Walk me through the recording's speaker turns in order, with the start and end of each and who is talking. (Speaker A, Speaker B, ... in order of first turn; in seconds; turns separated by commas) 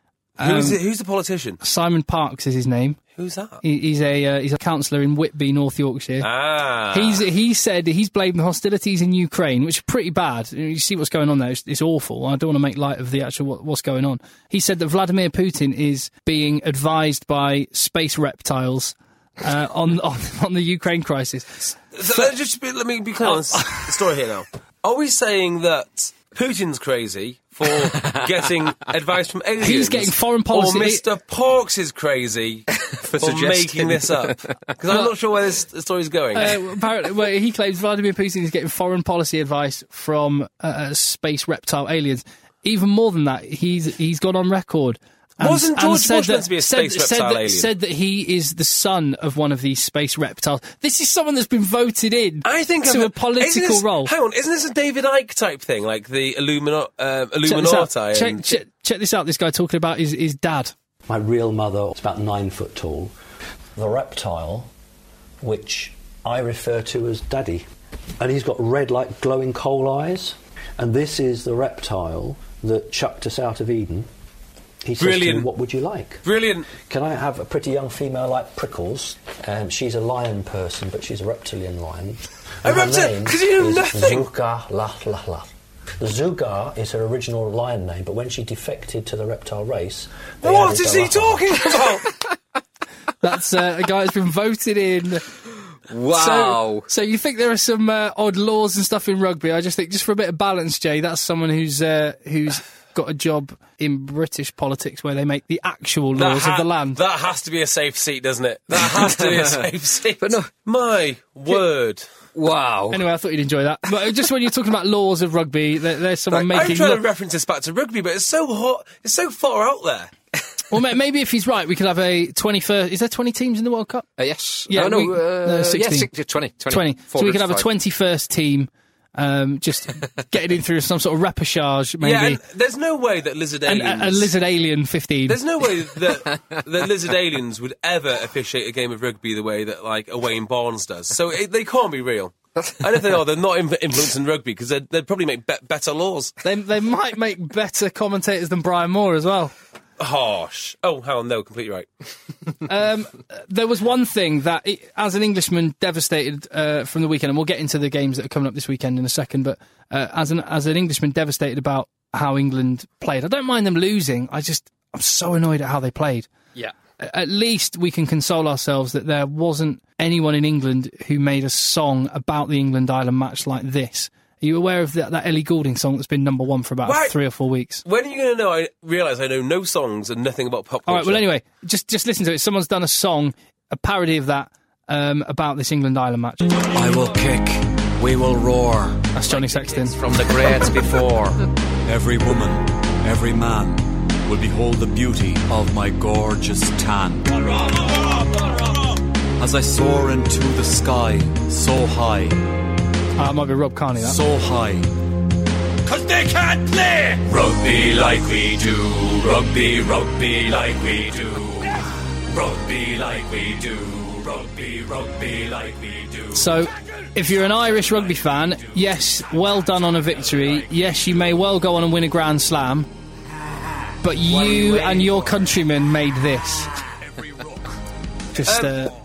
Speaker A: 0.4-0.8, Speaker B: 0.4-1.6, Speaker A: 1.6-3.0, Speaker B: 3.2-3.6, Speaker A: 3.6-6.3, Speaker B: 6.2-7.2, Speaker A: 6.9-22.3, Speaker B: 21.9-32.7, Speaker A: 23.2-23.9, Speaker A: 29.6-31.0, Speaker C: 32.8-34.5, Speaker B: 33.2-36.5, Speaker A: 36.4-54.1, Speaker B: 45.4-47.7, Speaker B: 52.4-58.5, Speaker A: 57.5-60.7, Speaker D: 61.1-63.1, Speaker D: 63.8-64.7, Speaker D: 65.4-67.7, Speaker D: 68.2-74.1, Speaker D: 74.8-91.6, Speaker B: 75.0-75.5, Speaker B: 76.2-76.7, Speaker B: 82.6-84.3, Speaker B: 90.4-92.1, Speaker A: 93.2-95.3, Speaker C: 95.9-96.9, Speaker A: 96.1-107.0, Speaker B: 106.2-112.0, Speaker C: 108.7-109.6, Speaker C: 110.2-110.5, Speaker C: 112.3-113.0, Speaker A: 112.9-117.0, Speaker B: 116.3-120.1, Speaker A: 120.7-124.1, Speaker C: 124.2-127.7, Speaker A: 124.7-126.1, Speaker A: 126.7-132.4, Speaker B: 132.0-134.3, Speaker A: 133.7-135.4, Speaker B: 135.3-146.3, Speaker A: 146.4-149.5, Speaker B: 150.0-151.9, Speaker A: 152.7-166.3, Speaker A: 167.0-177.8, Speaker B: 176.8-177.2, Speaker B: 177.8-181.2, Speaker A: 180.9-186.5, Speaker E: 186.7-189.1, Speaker A: 189.1-190.0, Speaker B: 189.3-190.9, Speaker E: 190.0-198.4, Speaker E: 199.4-202.4, Speaker A: 203.2-204.2, Speaker E: 204.0-204.9, Speaker E: 205.9-216.5, Speaker A: 216.3-222.9, Speaker A: 224.0-226.7, Speaker E: 224.4-225.1, Speaker E: 227.0-227.7, Speaker A: 228.3-228.9, Speaker B: 228.5-228.8